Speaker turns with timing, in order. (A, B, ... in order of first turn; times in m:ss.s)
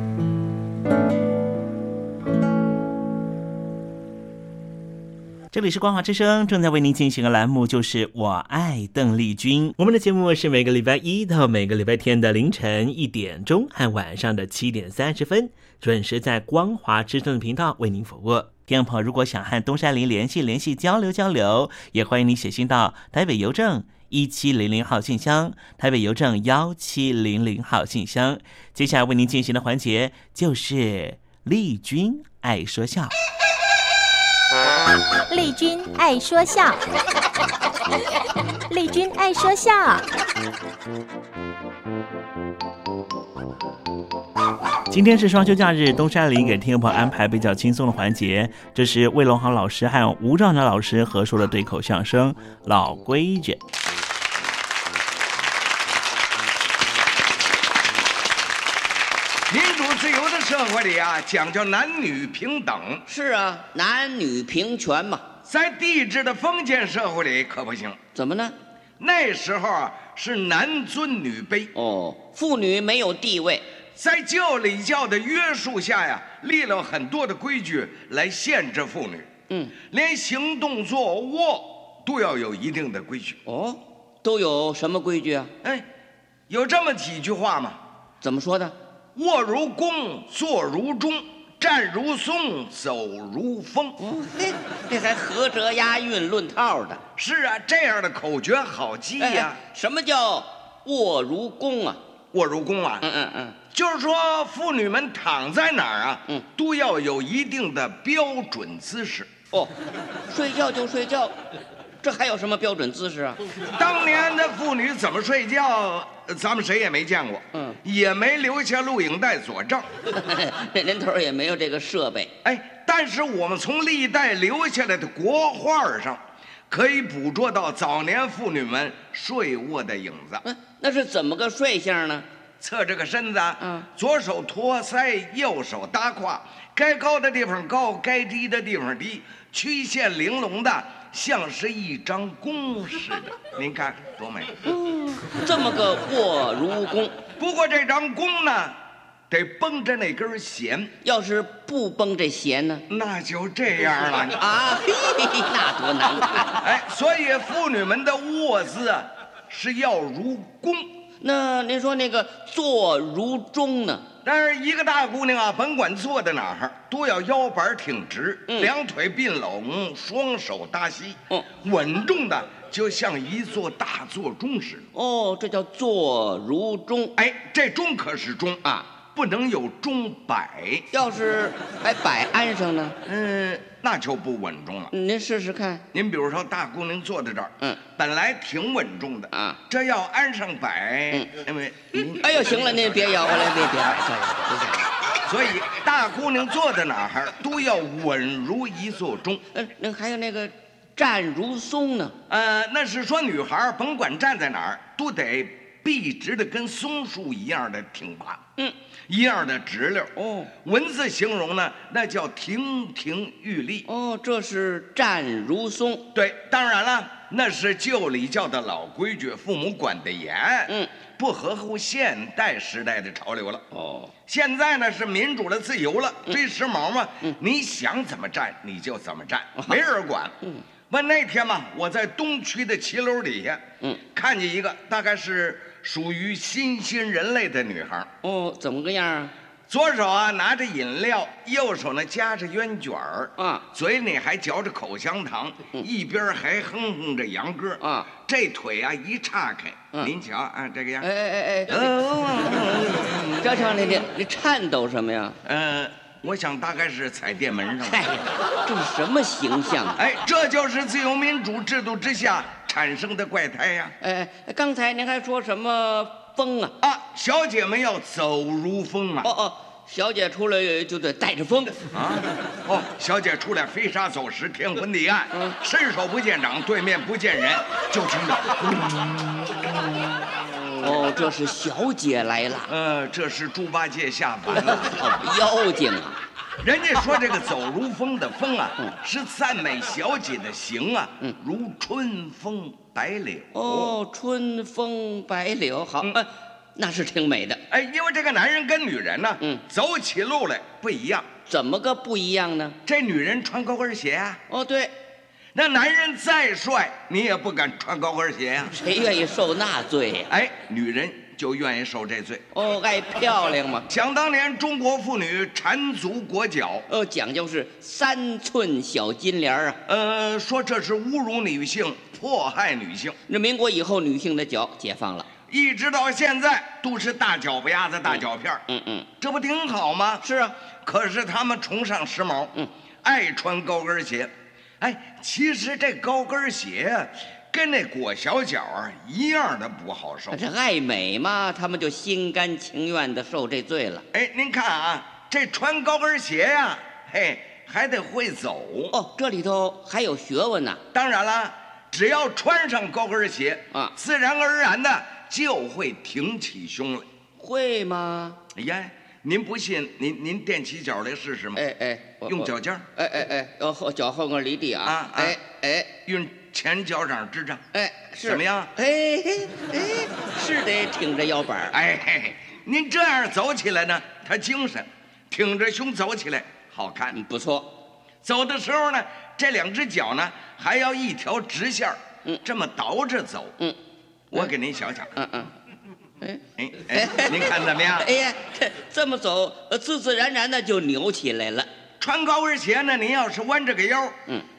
0:05.5-0:33.1 A
0:35.3-0:36.8 B
0:38.7-0:40.0 B
0:44.9-0:53.6 A
0:59.5-1:03.0 C
1:03.1-1:05.2 D
1:05.4-1:08.0 C
1:08.1-1:08.5 D
1:09.0-1:11.7 C
1:11.7-1:13.6 D
1:13.9-1:19.3 C
1:19.9-1:23.4 C
1:23.4-1:25.5 D
1:26.5-1:27.8 C
1:28.2-1:28.8 D
1:29.1-1:34.0 C
1:34.0-1:37.0 D
1:37.2-1:39.6 C
1:39.2-1:42.0 D
1:42.3-1:43.0 C
1:43.0-1:43.6 D
1:43.7-1:49.3 C
1:50.3-1:51.3 D
1:52.0-1:53.4 D
1:53.7-1:59.9 C
2:00.1-2:02.3 D
2:02.4-2:10.4 C
2:10.4-2:12.2 D
2:12.6-2:24.5 C
2:13.6-2:13.8 D
2:24.6-2:27.2 D
2:27.4-2:28.8 C
2:29.3-2:30.9 C
2:31.0-2:32.8 D
2:32.9-2:34.4 C
2:34.3-2:36.6 D
2:36.6-2:40.9 C
2:41.2-2:44.0 D
2:44.2-2:54.9 C
2:54.9-2:57.1 D
2:57.2-3:00.8 C
3:00.9-3:03.0 D
3:03.0-3:04.9 C
3:04.9-3:05.8 D
3:05.9-3:12.9 C
3:09.3-3:09.6 D
3:12.0-3:14.9 D
3:15.2-3:19.4 C
3:19.5-3:22.1 D
3:22.3-3:28.4 C
3:29.1-3:30.1 C
3:30.2-3:30.5 D
3:30.6-3:33.9 C
3:33.8-3:36.1 D
3:36.1-3:43.6 C
3:43.7-3:44.1 D
3:44.3-3:50.3 C
3:50.9-3:58.1 C
3:58.2-3:59.3 D
3:59.7-4:11.1 C
4:03.4-4:03.6 D
4:07.8-4:08.1 D
4:11.0-4:11.8 D
4:11.7-4:13.7 C
4:13.4-4:15.4 D
4:15.4-4:18.1 C
4:17.8-4:20.0 D
4:20.0-4:23.9 C
4:24.0-4:26.7 D
4:26.8-4:29.3 C
4:29.2-4:31.8 D
4:31.9-4:39.7 C
4:40.8-4:42.7 D
4:42.7-4:45.1 C
4:44.6-4:46.2 D
4:46.6-4:53.9 C
4:53.5-4:57.6 D
4:57.7-5:01.3 C
5:01.5-5:02.8 D
5:02.8-5:04.4 C
5:04.5-5:04.9 D
5:05.5-5:08.7 C
5:08.7-5:10.3 D
5:10.3-5:12.4 C
5:12.5-5:13.8 D
5:13.9-5:16.9 C
5:16.9-5:19.8 D
5:19.9-5:23.2 C
5:23.3-5:25.3 D
5:25.5-5:28.6 C
5:28.1-5:29.1 D
5:29.2-5:30.2 C
5:30.2-5:30.5 D
5:30.8-5:32.5 C
5:33.0-5:40.4 C
5:40.3-5:44.0 D
5:44.1-5:48.9 C
5:48.9-5:50.8 D
5:50.9-5:57.1 C
5:57.4-5:58.4 D
5:58.5-6:01.6 C
6:01.6-6:05.9 D
6:02.2-6:02.8 C
6:04.8-6:05.4 C
6:06.0-6:07.6 C
6:07.7-6:11.8 D
6:08.2-6:08.7 C
6:11.7-6:17.2 C
6:17.1-6:17.7 D
6:18.2-6:23.5 C
6:24.3-6:25.1 C
6:25.2-6:25.5 D
6:26.2-6:31.7 D
6:26.6-6:28.1 C
6:32.0-6:34.2 C